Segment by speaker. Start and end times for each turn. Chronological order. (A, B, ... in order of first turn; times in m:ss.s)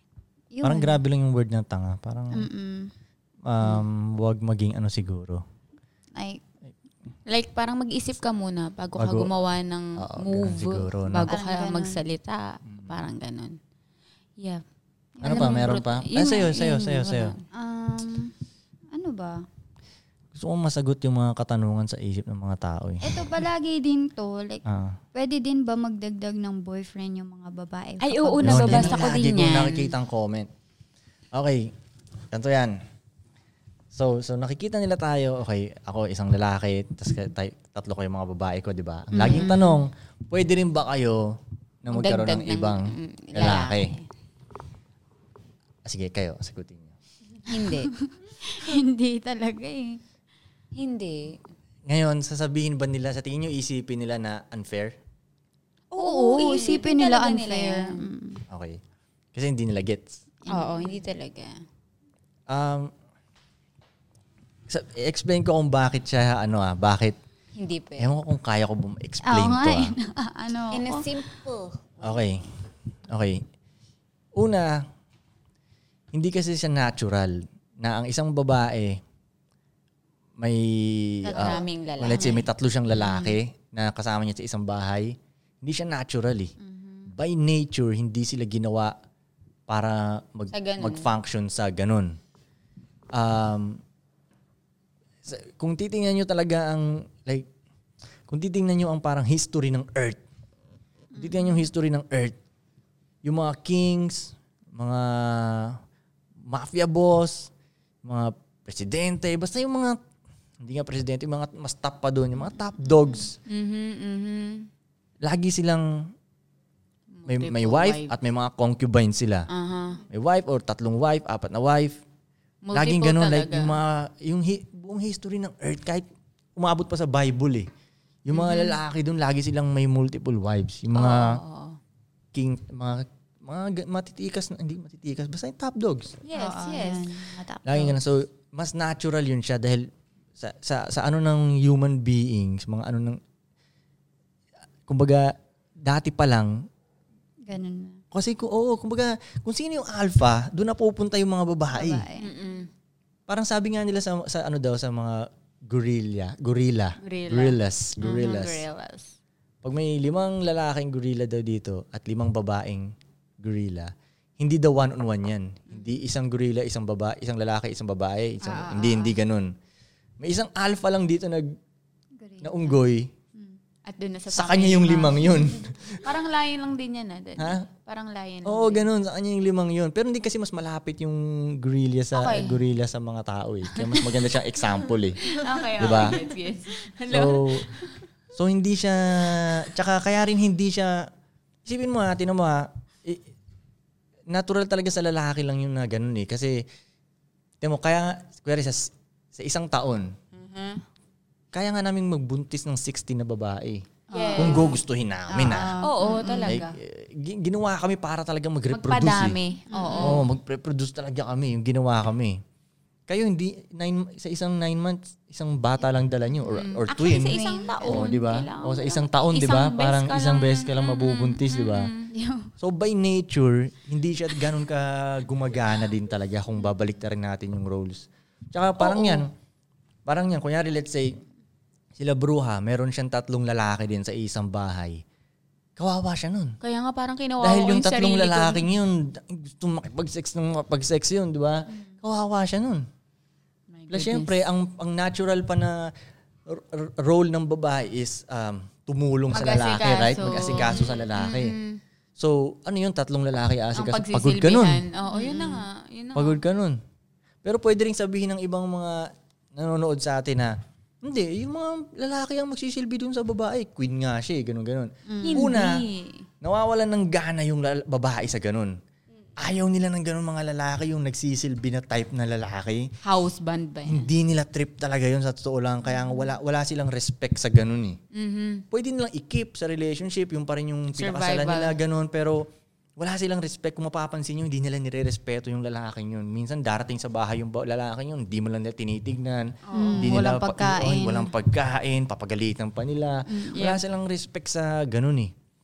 0:00.5-0:01.0 A
0:00.6-0:02.5 B
0:02.3-0:02.9 A
0:03.4-0:05.4 B
0:07.3-0:13.6 C
0:09.0-0:09.3 B
0:10.0-0:11.3 B
0:11.3-0:12.0 A
0:12.6-0:12.9 B
0:15.2-0:15.8 A
0:15.2-0:17.4 C
0:15.2-0:17.3 B
0:17.5-0:18.3 A
0:18.9-0:19.4 A
0:20.3-0:23.2 B
0:23.0-0:24.6 A
0:24.6-0:25.0 B
0:25.1-0:29.1 A
0:28.0-0:29.9 C
0:28.4-0:30.5 B
0:31.3-0:31.7 B
0:32.3-0:32.8 B
0:33.9-0:43.9 B
0:39.1-0:39.7 A
0:39.2-0:39.6 C
0:41.9-0:44.0 C
0:45.8-0:46.9 B
0:47.4-0:47.9 C
0:47.9-0:50.0 A
0:50.7-0:51.4 C
0:51.8-0:55.0 B
0:55.9-0:58.0 C
0:56.0-0:58.4 A
0:58.5-0:58.8 B
0:59.3-1:00.2 B
1:00.4-1:00.9 A
1:00.5-1:01.6 C
1:02.5-1:02.9 B
1:04.7-1:07.2 B
1:07.6-1:08.1 C
1:08.0-1:09.9 B
1:09.2-1:11.1 A
1:10.7-1:12.2 C
1:12.0-1:12.4 B
1:13.1-1:13.4 B
1:14.4-1:14.9 B
1:16.1-1:19.0 B
1:20.4-1:26.5 B
1:21.3-1:21.6 A
1:21.3-1:23.3 C
1:27.1-1:29.0 B
1:29.7-1:32.2 B
1:30.5-1:31.1 C
1:33.1-1:33.8 B
1:35.2-1:37.5 B
1:38.3-1:40.2 B
1:41.1-1:42.4 B
1:43.2-1:45.8 B
1:46.5-1:47.5 B
1:48.0-1:50.0 B
1:50.6-1:53.4 B
1:53.5-1:54.7 C
1:55.2-1:56.1 B
1:57.1-1:58.1 C
1:57.3-1:59.5 B
1:59.5-2:00.0 C
2:00.1-2:02.0 B
2:02.6-2:03.8 C
2:02.7-2:07.7 B
2:08.2-2:11.4 B
2:08.3-2:08.8 C
2:10.9-2:11.8 C
2:12.3-2:16.2 B
2:16.2-2:17.1 C
2:16.3-2:18.0 A
2:17.6-2:23.2 B
2:24.9-2:26.6 B
2:27.5-2:28.0 A
2:28.1-2:32.0 B
2:31.7-2:32.3 A
2:32.2-2:32.7 C
2:33.3-2:38.6 B
2:37.0-2:39.1 C
2:39.6-2:49.5 B
2:48.4-2:49.1 C
2:50.2-2:51.6 B
2:52.2-2:52.8 A
2:52.4-2:53.1 B
2:53.9-2:55.4 C
2:54.3-2:56.1 B
2:56.0-2:58.9 C
2:57.4-2:57.6 B
2:58.4-3:06.2 B
3:02.1-3:02.6 C
3:05.2-3:07.9 C
3:07.1-3:07.7 B
3:08.3-3:11.1 B
3:11.6-3:13.2 B
3:14.3-3:16.6 B
3:17.6-3:20.1 B
3:20.3-3:20.8 C
3:21.5-3:25.8 B
3:24.1-3:24.8 A
3:24.1-3:24.8 C
3:25.3-3:26.6 A
3:25.8-3:26.7 C
3:26.4-3:29.4 B
3:28.7-3:30.2 C
3:29.7-3:30.2 A
3:30.0-3:32.4 B
3:33.1-3:41.9 B
3:36.5-3:42.1 C
3:37.3-3:38.1 A
3:42.1-3:42.5 A
3:42.6-3:49.3 B
3:48.8-3:49.2 C
3:50.0-3:51.2 B
3:52.0-3:55.0 B
3:55.8-3:56.6 B
3:56.6-3:58.7 C
3:57.4-4:02.9 B
4:03.7-4:04.4 C
4:03.9-4:05.9 B
4:06.5-4:11.6 B
4:09.3-4:11.8 C
4:12.2-4:14.8 B
4:13.7-4:16.4 C
4:15.1-4:15.6 A
4:16.1-4:16.8 B
4:17.4-4:25.8 B
4:25.1-4:25.5 A
4:25.2-4:26.2 C
4:26.4-4:28.8 B
4:29.4-4:32.9 B
4:33.0-4:34.1 C
4:33.8-4:38.0 B
4:38.1-4:38.6 C
4:38.7-4:55.3 B
4:40.9-4:41.8 C
4:49.7-4:50.2 C
4:49.7-4:51.3 A
4:53.3-4:53.8 C